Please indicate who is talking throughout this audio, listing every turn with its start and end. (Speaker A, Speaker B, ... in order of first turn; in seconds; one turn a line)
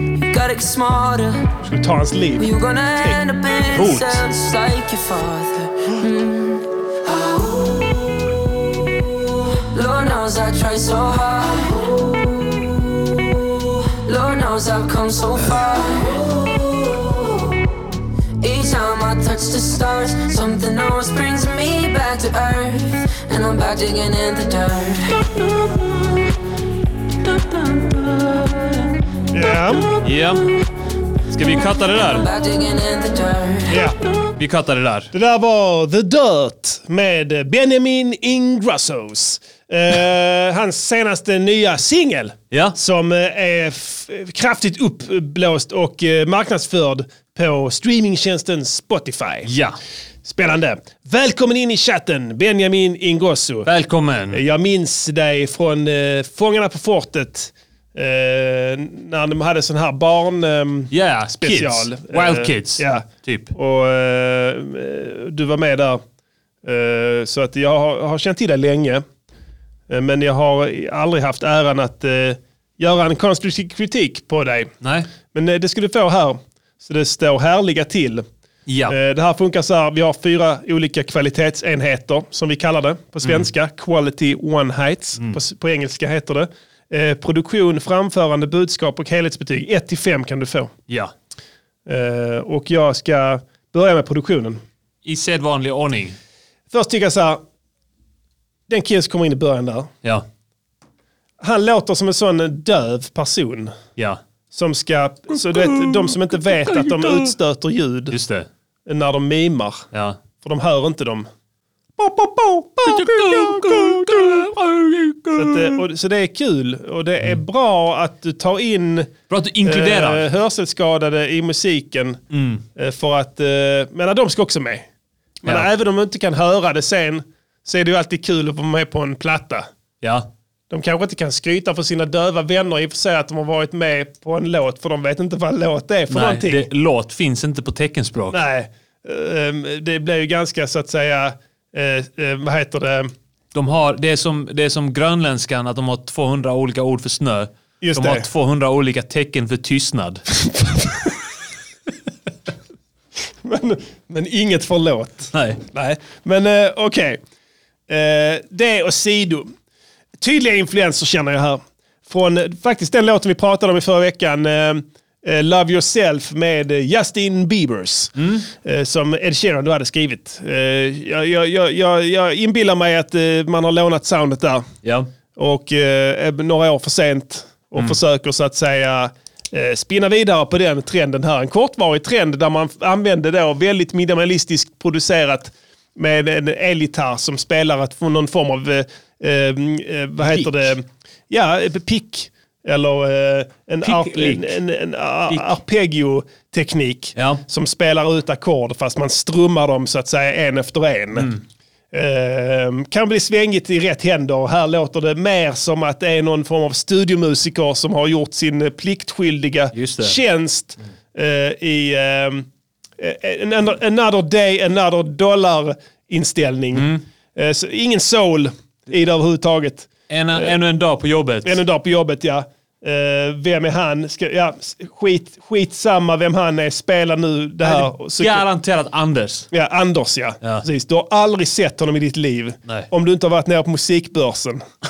Speaker A: 0.2-1.5
Speaker B: 1.6-3.2
Speaker A: 2.4-17.6
Speaker C: 3.8-4.2
Speaker A: 18.4-25.4
Speaker A: 27.3-28.6
Speaker B: 29.3-29.9
Speaker C: 30.0-30.5
Speaker C: 31.3-32.2
Speaker A: 32.1-33.8
Speaker B: 33.7-34.0
Speaker C: 34.4-35.1
Speaker B: 35.1-49.5
Speaker C: 42.5-42.8
Speaker C: 49.5-49.8
Speaker B: 50.2-53.7
Speaker C: 53.6-54.4
Speaker B: 54.3-66.0
Speaker C: 60.9-63.5
Speaker B: 66.6-69.0
Speaker B: 69.9-74.7
Speaker C: 74.8-75.1
Speaker B: 75.3-78.2
Speaker C: 78.7-79.0
Speaker B: 78.9-90.7
Speaker B: 91.9-94.6
Speaker C: 95.0-96.2
Speaker B: 96.7-97.4
Speaker B: 98.7-99.9
Speaker B: 101.4-103.8
Speaker B: 104.5-108.2
Speaker C: 105.5-107.3
Speaker C: 108.1-108.5
Speaker B: 108.9-109.9
Speaker C: 109.9-110.2
Speaker B: 110.4-111.3
Speaker B: 112.0-114.4
Speaker C: 112.8-115.8
Speaker B: 115.3-119.1
Speaker C: 119.3-120.3
Speaker B: 119.7-122.2
Speaker C: 122.3-122.6
Speaker B: 122.8-124.9
Speaker B: 125.4-129.7
Speaker C: 130.0-130.3
Speaker B: 130.7-136.7
Speaker C: 136.1-138.4
Speaker B: 138.3-143.1
Speaker C: 143.5-150.2
Speaker B: 147.8-148.3
Speaker B: 153.4-157.2
Speaker C: 155.3-155.6
Speaker B: 157.9-159.5
Speaker B: 160.2-174.7
Speaker C: 168.2-168.5
Speaker C: 174.8-175.1
Speaker B: 175.4-201.3
Speaker C: 190.2-190.5
Speaker C: 193.8-194.6
Speaker C: 197.2-197.4
Speaker C: 201.2-201.4
Speaker B: 201.9-212.5
Speaker C: 209.7-210.2
Speaker B: 213.0-220.5
Speaker C: 216.7-217.0
Speaker C: 220.1-221.6
Speaker B: 221.4-228.4
Speaker C: 227.6-229.5
Speaker B: 229.5-234.6